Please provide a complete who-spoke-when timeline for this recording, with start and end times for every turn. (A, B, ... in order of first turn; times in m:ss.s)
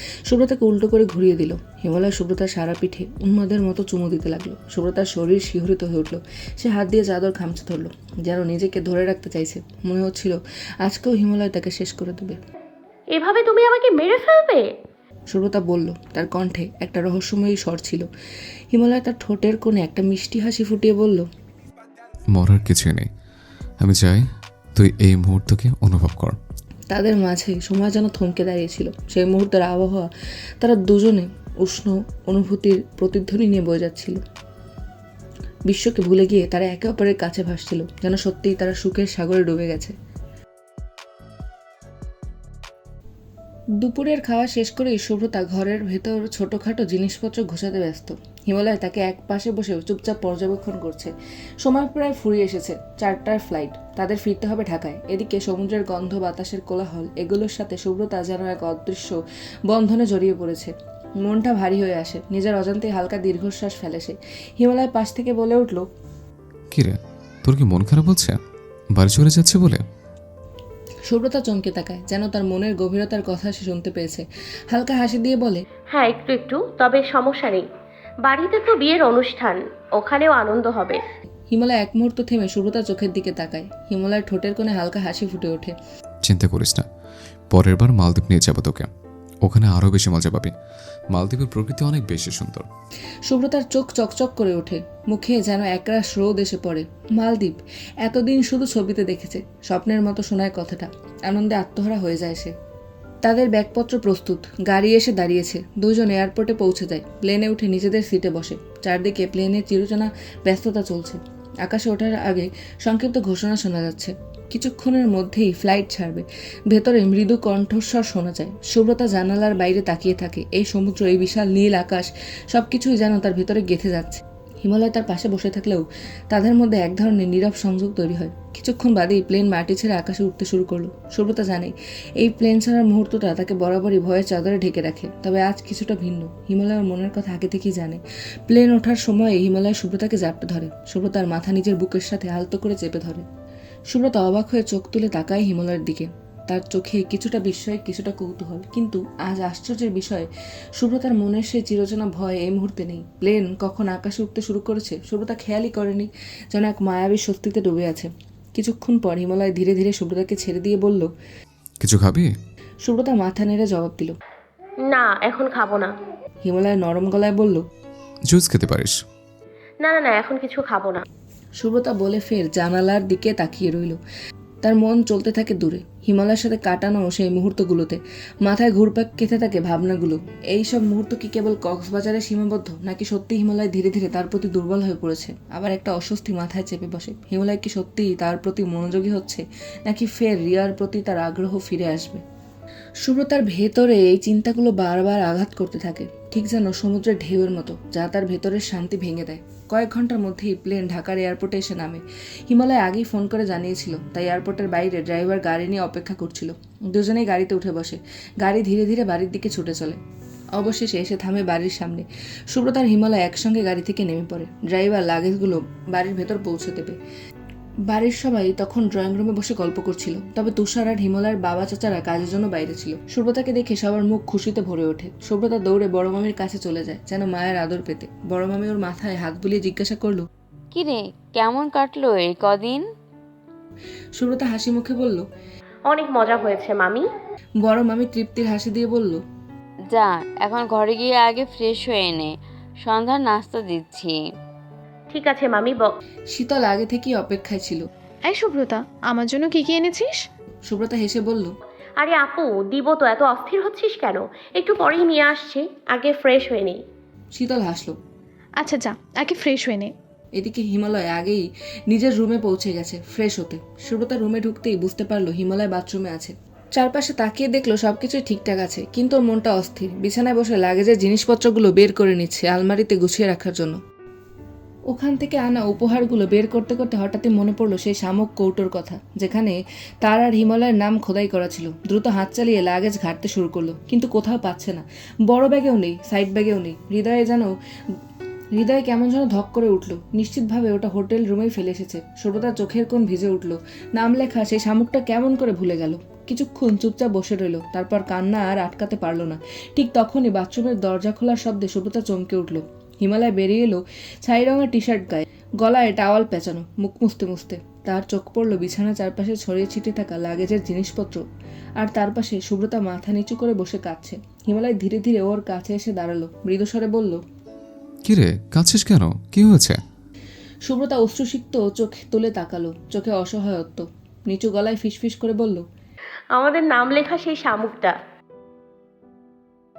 0:00.3-0:12.4 A
0:13.1-0:14.6 B
0:15.3-0:18.0 A
0:18.7-0:21.2 A
0:22.3-0:23.1 C
0:23.8-0:24.2 C
0:24.8-0:26.4 C
0:26.9-0:30.1 A
0:30.6-0:34.2 A
0:35.7-0:39.9 A
0:43.8-0:59.2 A
0:59.7-1:05.8 A
1:06.7-1:08.4 C
1:08.9-1:09.8 C
1:11.1-1:15.6 A
1:15.9-1:17.6 B
1:18.2-1:21.0 B
1:21.5-1:25.7 A
1:26.2-1:26.8 C
1:27.5-1:28.9 C
1:29.4-1:30.5 C
1:31.1-1:32.6 C
1:33.3-1:42.5 A
1:43.2-2:23.2 A
2:23.9-2:41.1 A
2:41.8-2:42.3 C
2:42.8-2:44.1 A
2:44.9-2:45.9 B
2:46.4-2:47.6 A
2:48.3-2:48.9 C
2:49.8-2:51.0 B
2:51.6-2:54.0 A
2:54.6-3:12.2 A
3:13.0-3:30.0 A
3:30.5-3:37.0 A
3:37.9-3:50.2 A
3:50.7-3:52.8 D
3:54.2-3:55.2 A
3:55.9-3:57.0 B
3:57.6-3:59.2 A
3:59.9-4:04.2 D
4:05.1-4:05.9 B
4:06.3-4:07.8 A
4:08.3-4:10.2 E
4:10.7-4:11.5 A
4:12.0-4:16.8 B
4:17.3-4:17.9 A
4:18.6-4:19.9 E
4:20.4-4:33.8 A
4:34.9-4:47.5 A
4:48.6-5:11.2 A
5:11.8-5:17.2 A
5:18.0-5:19.8 C
5:20.7-5:25.6 A
5:26.4-5:27.9 B